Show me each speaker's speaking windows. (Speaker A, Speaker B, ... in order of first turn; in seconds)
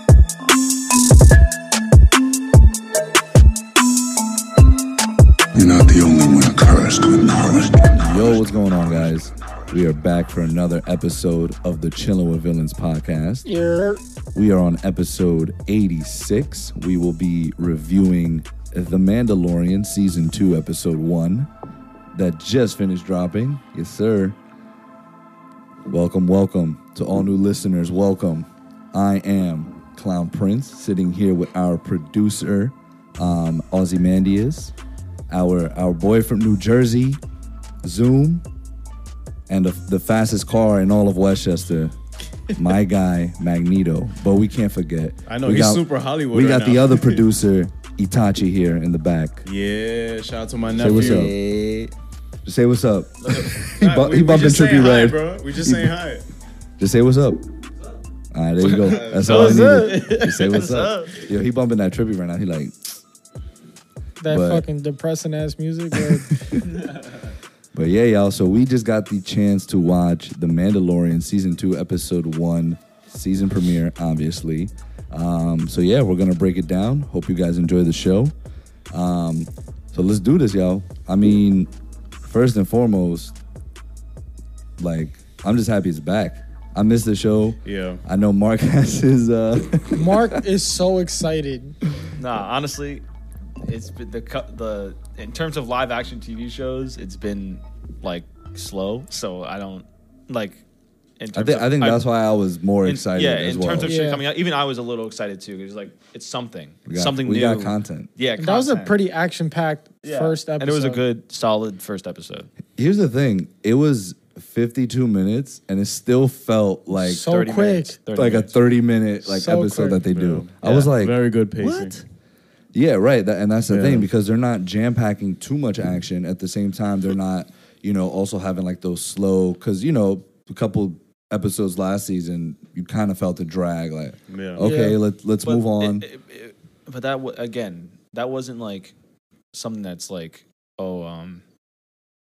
Speaker A: 5.5-8.4
Speaker B: 7.9-13.4, 14.3-21.5, 22.1-24.4, 25.9-34.7, 35.3-37.2, 37.8-38.4, 39.5-41.9, 42.5-49.4, 50.8-51.4, 52.4-56.0, 56.8-57.4, 58.3-62.7, 64.3-64.6, 66.2-66.8, 67.7-78.3, 78.9-81.7, 82.2-83.3, 84.8-90.4, 101.3-103.9, 106.9-108.1, 112.8-117.3, 118.1-122.0, 122.7-136.0
Speaker C: 13.4-14.0, 59.2-60.0, 64.2-66.4, 89.9-91.8, 103.8-104.2, 108.4-111.0, 117.0-118.0, 119.3-120.0, 134.6-135.0
Speaker D: 45.3-47.2, 49.4-51.3, 53.4-56.2, 58.6-60.5, 87.6-88.0, 120.1-122.0, 123.7-124.1, 134.3-134.7
Speaker E: 50.7-51.9, 53.2-53.6, 60.1-61.2, 92.2-93.0, 93.6-100.6, 101.2-102.0, 102.8-108.9, 110.0-112.5, 117.2-118.5, 135.4-138.9, 139.5-141.4